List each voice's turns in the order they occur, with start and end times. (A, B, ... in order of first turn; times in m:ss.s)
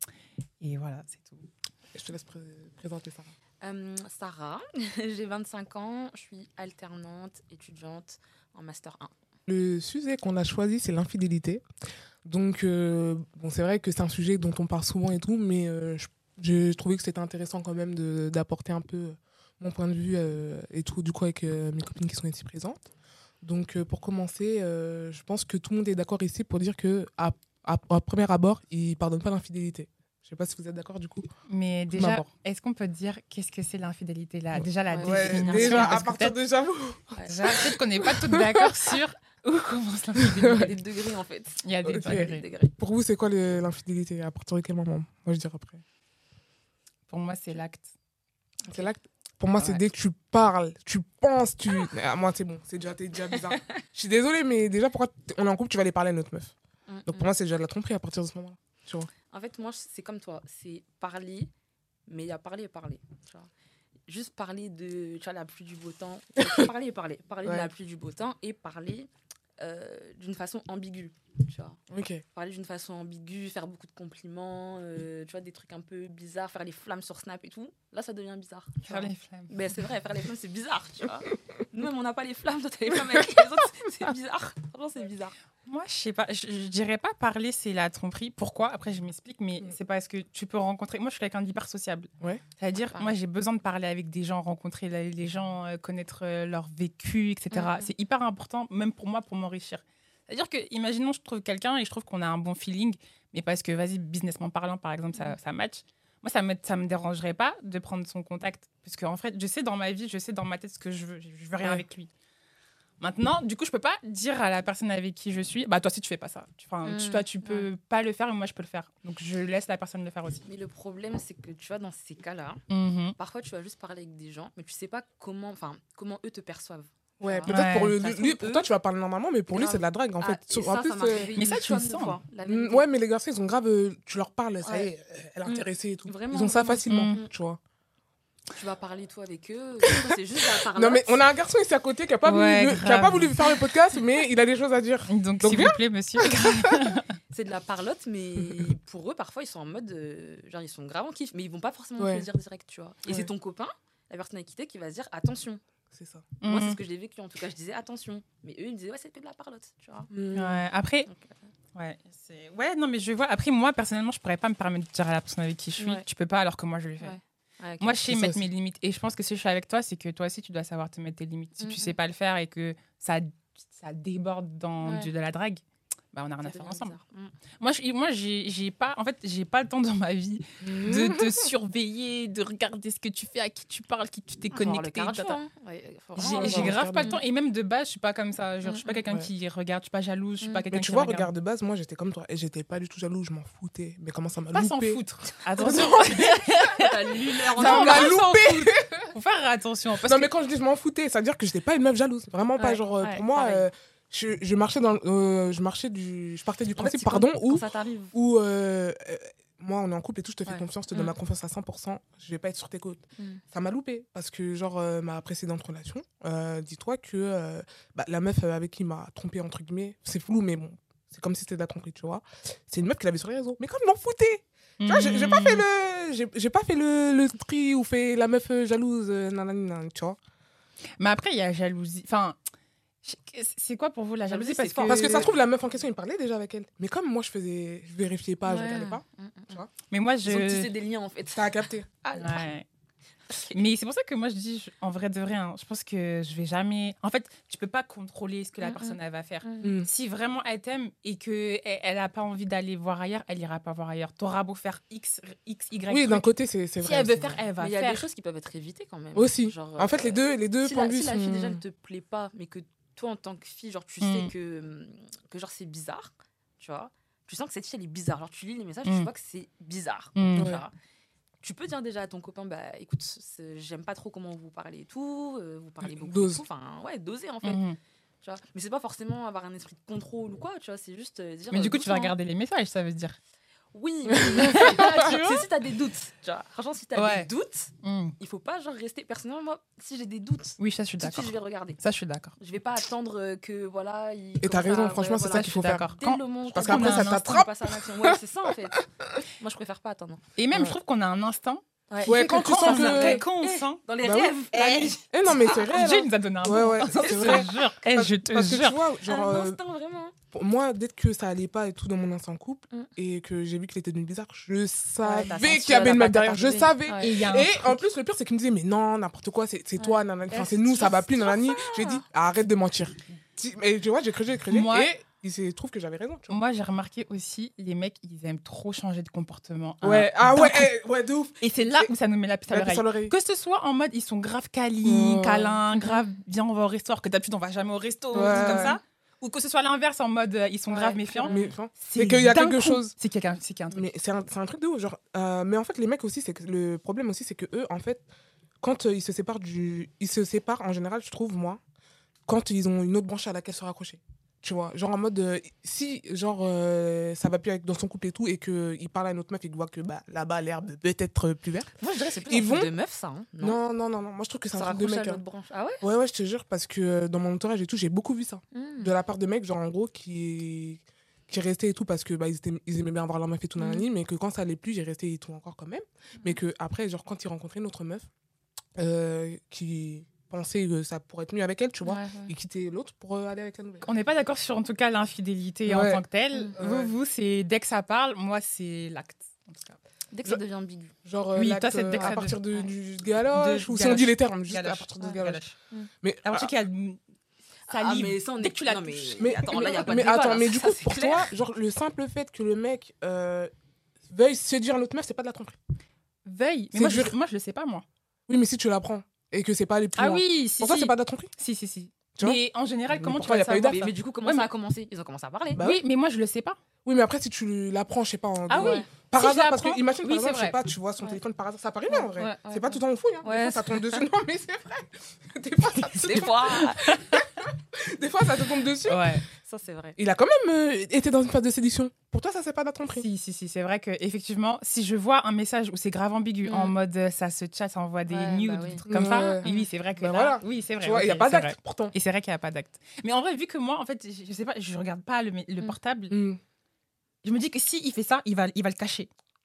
0:00.6-0:01.4 A
0:01.9-0:03.3 B
0:03.6-0:09.1 C
0:09.5-0:11.6 B
0:12.2-0:22.9 B
0:23.4-0:31.3 B
0:31.5-0:36.4 A
0:31.9-0:32.2 B
0:34.5-0:38.9 B
0:34.9-0:36.1 C
0:37.3-0:40.8 A
0:40.2-0:40.7 B
0:40.4-0:42.7 C
0:41.6-0:42.4 A
0:41.8-0:45.8 B
0:47.1-0:47.9 A
0:48.6-0:49.0 C
0:48.7-0:56.5 B
0:56.9-0:57.3 C
0:57.0-0:59.1 B
0:59.3-1:01.5 C
1:02.1-1:03.5 C
1:04.1-1:11.8 C
1:06.4-1:06.7 B
1:07.4-1:07.7 B
1:11.9-1:12.2 B
1:12.3-1:25.3 C
1:18.8-1:19.5 A
1:25.6-1:52.1 A
1:37.5-1:37.9 C
1:53.0-2:00.4 A
1:56.8-1:57.7 C
2:00.4-2:02.6 C
2:02.7-2:03.2 A
2:03.2-2:08.7 C
2:07.2-2:11.5 B
2:07.5-2:08.0 A
2:09.5-2:12.9 C
2:11.4-2:12.2 A
2:12.4-2:17.6 B
2:15.4-2:17.3 C
2:16.9-2:17.2 A
2:18.5-2:21.2 C
2:19.8-2:26.9 B
2:22.2-2:23.4 A
2:25.1-2:27.2 A
2:27.3-2:35.6 C
2:32.0-2:32.2 B
2:35.9-2:36.3 B
2:36.4-2:36.8 A
2:36.4-2:40.1 C
2:40.1-2:40.6 B
2:40.3-2:41.1 A
2:41.1-2:41.3 C
2:41.7-2:47.2 A
2:45.8-2:46.0 C
2:47.0-2:48.1 C
2:47.8-2:57.0 A
2:48.0-2:48.4 B
2:51.6-2:51.9 C
2:54.8-2:55.1 C
2:56.4-2:57.3 C
2:57.6-3:05.4 A
3:00.6-3:01.5 B
3:04.5-3:07.2 C
3:06.2-3:07.2 B
3:06.2-3:11.3 A
3:08.6-3:09.0 C
3:10.7-3:15.0 B
3:14.5-3:20.3 A
3:15.6-3:18.2 C
3:17.5-3:19.1 B
3:20.0-3:50.2 B
3:22.6-3:23.6 C
3:26.8-3:28.1 C
3:30.5-3:31.1 C
3:44.8-3:45.6 A
3:51.0-3:52.4 A
3:53.0-3:55.3 A
3:54.3-3:55.4 C
3:54.8-3:59.7 B
3:58.5-3:59.6 C
3:59.9-4:00.7 A
4:00.2-4:02.4 C
4:01.3-4:01.9 B
4:02.1-4:02.6 A
4:03.5-4:18.0 A
4:08.6-4:09.7 C
4:09.6-4:09.9 B
4:15.9-4:17.4 B
4:17.6-4:30.7 C
4:19.1-4:21.6 B
4:24.0-4:24.3 A
4:30.1-4:30.6 A
4:30.3-4:30.6 B
4:31.4-4:37.6 C
4:35.8-4:36.4 B
4:37.4-4:37.8 A
4:38.2-4:42.1 C
4:41.5-4:43.2 A
4:43.7-4:51.8 C
4:44.1-4:45.2 B
4:44.4-4:45.5 A
4:47.0-4:47.3 A
4:47.8-4:48.1 A
4:50.6-4:52.3 A
4:52.4-4:58.8 C
4:54.4-4:55.9 B
4:55.3-4:57.4 A
4:56.5-4:58.8 B
4:59.4-5:00.2 C
5:00.4-5:03.8 A
5:01.9-5:05.7 C
5:02.1-5:03.2 B
5:04.0-5:09.6 B
5:04.5-5:04.9 A
5:05.6-5:08.8 A
5:06.9-5:07.5 C
5:09.0-5:10.1 C
5:10.3-5:26.3 B
5:15.0-5:17.1 C
5:16.9-5:17.8 A
5:19.8-5:22.0 C
5:24.5-5:24.9 A
5:26.3-5:30.7 A
5:29.8-5:31.9 B
5:31.4-5:43.8 A
5:32.5-5:33.1 B
5:34.8-5:35.6 B
5:38.1-5:38.8 C
5:38.1-5:38.8 B
5:40.7-5:41.5 C
5:41.2-5:42.9 B
5:43.7-5:48.0 B
5:48.6-5:51.6 B
5:52.3-6:01.7 B
6:01.8-6:03.6 C
6:02.3-6:02.7 B
6:03.4-6:05.2 B
6:04.5-6:05.8 C
6:05.8-6:18.1 B
6:08.5-6:08.9 C
6:13.6-6:13.8 C
6:18.8-6:23.9 B
6:21.8-6:22.3 C
6:23.8-6:29.8 A
6:25.6-6:26.0 B
6:26.6-6:26.9 B
6:30.1-6:30.9 C
6:31.0-6:35.4 B
6:31.3-6:32.4 A
6:32.0-6:32.7 C
6:33.3-6:35.6 A
6:36.0-6:36.5 B
6:36.2-6:37.0 A
6:37.7-6:39.3 A
6:37.7-6:41.3 C
6:39.2-6:43.5 B
6:44.1-6:45.6 B
6:46.2-6:47.8 A
6:46.7-6:47.1 B
6:48.3-6:51.3 B
6:50.0-6:54.5 A
6:52.2-6:53.9 B
6:53.7-6:55.6 C
6:55.6-6:55.8 B
6:55.6-6:56.6 A
6:56.8-7:09.2 B
6:58.5-7:00.6 A
6:58.5-6:58.9 C
7:01.9-7:04.0 C
7:05.8-7:07.3 A
7:06.0-7:07.0 C
7:08.8-7:09.2 A
7:09.4-7:10.0 C
7:10.0-7:13.1 B
7:13.0-7:26.1 A
7:16.4-7:16.7 C
7:18.1-7:19.7 C
7:18.9-7:21.9 B
7:26.1-7:26.4 B
7:27.2-7:29.1 A